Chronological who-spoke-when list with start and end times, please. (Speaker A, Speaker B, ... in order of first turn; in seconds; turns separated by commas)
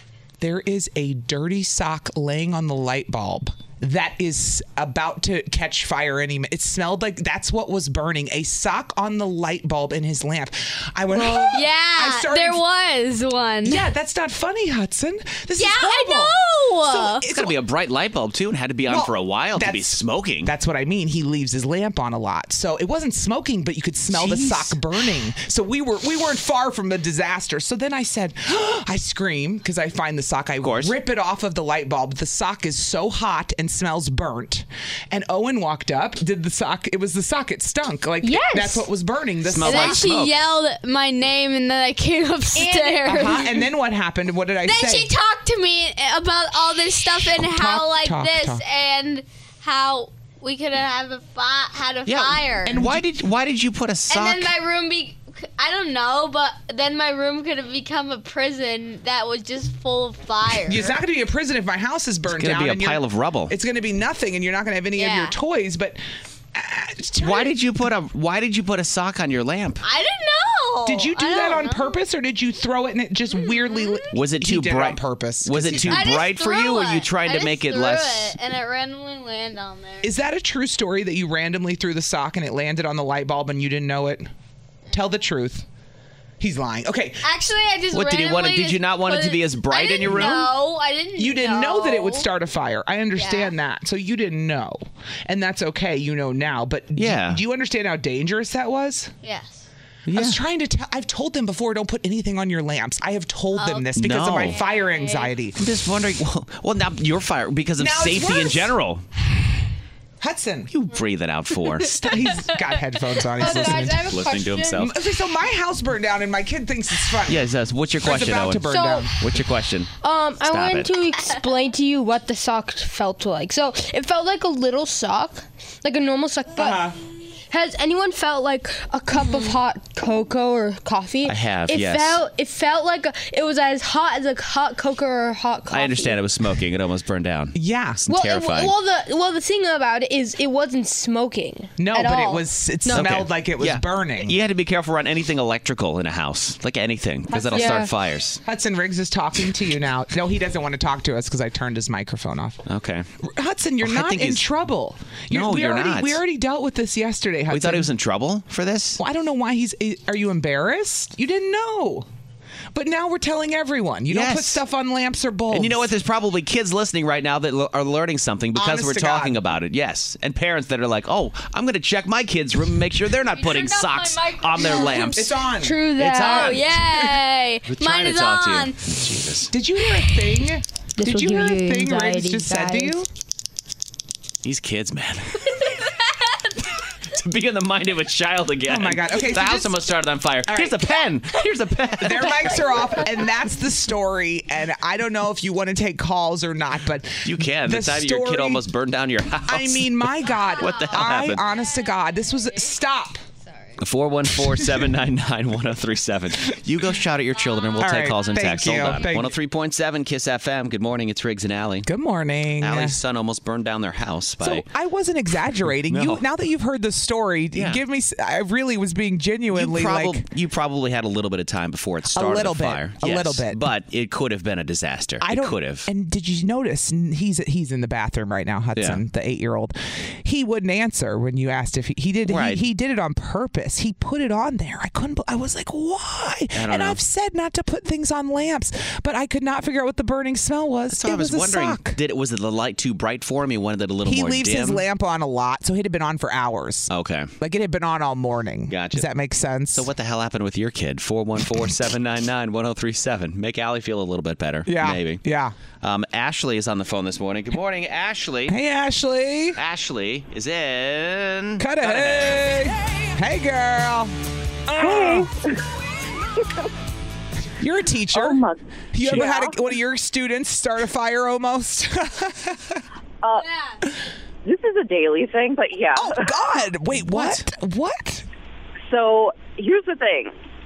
Speaker A: 0.4-12.6, Speaker B: 11.1-13.8, Speaker A: 13.6-17.6, Speaker B: 15.6-17.2, Speaker C: 17.3-20.5, Speaker A: 18.9-40.0, Speaker C: 24.1-24.8, Speaker C: 30.6-30.9, Speaker D: 38.2-38.8, Speaker C: 39.5-40.4, Speaker B: 39.6-43.5, Speaker D: 42.5-43.4, Speaker A: 43.0-45.1, Speaker B: 44.6-52.8, Speaker A: 47.2-48.6, Speaker C: 52.0-54.5, Speaker A: 52.6-53.0, Speaker B: 54.1-61.0, Speaker A: 60.6-66.0, Speaker C: 62.3-63.5, Speaker B: 65.0-65.3, Speaker A: 66.5-67.5, Speaker C: 67.2-69.8, Speaker B: 69.8-72.0, Speaker A: 70.8-76.2, Speaker B: 73.3-74.1, Speaker C: 74.1-78.3, Speaker B: 75.9-80.1, Speaker A: 80.0-84.3, Speaker A: 84.9-85.6, Speaker A: 86.4-87.3, Speaker B: 87.2-92.2, Speaker C: 87.9-90.5, Speaker A: 90.2-90.5, Speaker A: 91.2-99.1, Speaker B: 93.1-93.5, Speaker C: 97.0-97.4, Speaker B: 99.2-99.6, Speaker C: 100.0-100.4, Speaker A: 100.1-105.6, Speaker B: 103.5-105.3, Speaker C: 104.0-104.6, Speaker C: 105.6-109.0, Speaker A: 107.8-108.7, Speaker A: 110.2-110.7, Speaker C: 110.7-112.1, Speaker A: 112.0-114.1, Speaker B: 113.4-114.9, Speaker C: 113.5-114.9, Speaker A: 114.8-117.5, Speaker C: 117.3-119.9, Speaker A: 118.0-119.1, Speaker D: 118.7-119.1, Speaker D: 120.0-126.9, Speaker C: 120.5-120.9, Speaker A: 126.5-127.0, Speaker D: 127.5-136.2, Speaker C: 131.3-132.2, Speaker C: 135.7-138.7, Speaker A: 137.5-138.0, Speaker D: 138.1-143.1, Speaker A: 141.8-144.4, Speaker C: 142.9-148.4, Speaker A: 147.3-147.8, Speaker D: 147.5-147.9, Speaker A: 148.4-152.6, Speaker C: 152.7-153.1, Speaker A: 153.2-157.9, Speaker C: 153.8-154.4, Speaker C: 155.3-156.2, Speaker C: 157.5-159.0, Speaker A: 159.0-162.1, Speaker A: 162.7-165.8, Speaker C: 164.1-164.6, Speaker C: 165.5-175.3, Speaker A: 168.5-169.4, Speaker B: 173.3-175.2, Speaker A: 175.1-175.8, Speaker D: 175.6-176.5, Speaker B: 175.8-178.8, Speaker C: 176.0-177.1, Speaker C: 177.7-179.5, Speaker A: 179.5-183.1, Speaker D: 181.0-183.0, Speaker C: 184.4-185.6, Speaker C: 187.1-192.7, Speaker A: 188.7-189.9, Speaker A: 190.4-190.9, Speaker A: 192.0-198.6, Speaker C: 197.2-201.4, Speaker A: 199.5-203.2, Speaker B: 200.3-202.6, Speaker B: 203.4-203.8, Speaker C: 203.8-211.9, Speaker B: 207.4-209.0, Speaker A: 207.8-209.3, Speaker A: 211.8-213.0, Speaker C: 212.6-214.7, Speaker A: 214.4-220.2, Speaker C: 215.9-216.2, Speaker C: 217.5-217.8, Speaker C: 219.5-225.9, Speaker A: 222.1-223.6, Speaker A: 225.2-242.0, Speaker C: 232.3-232.6, Speaker C: 236.5-237.0, Speaker C: 240.9-244.8, Speaker A: 244.0-249.9, Speaker C: 246.9-247.3, Speaker C: 248.7-249.1, Speaker C: 249.7-255.2, Speaker A: 254.6-255.5, Speaker C: 255.8-258.6, Speaker A: 258.5-259.6, Speaker C: 259.6-262.5, Speaker A: 261.6-264.1, Speaker A: 264.7-265.3, Speaker E: 264.8-265.3, Speaker A: 267.6-272.8, Speaker E: 268.1-269.6, Speaker E: 273.2-273.5, Speaker E: 274.4-276.4, Speaker A: 275.9-278.2, Speaker E: 278.9-280.3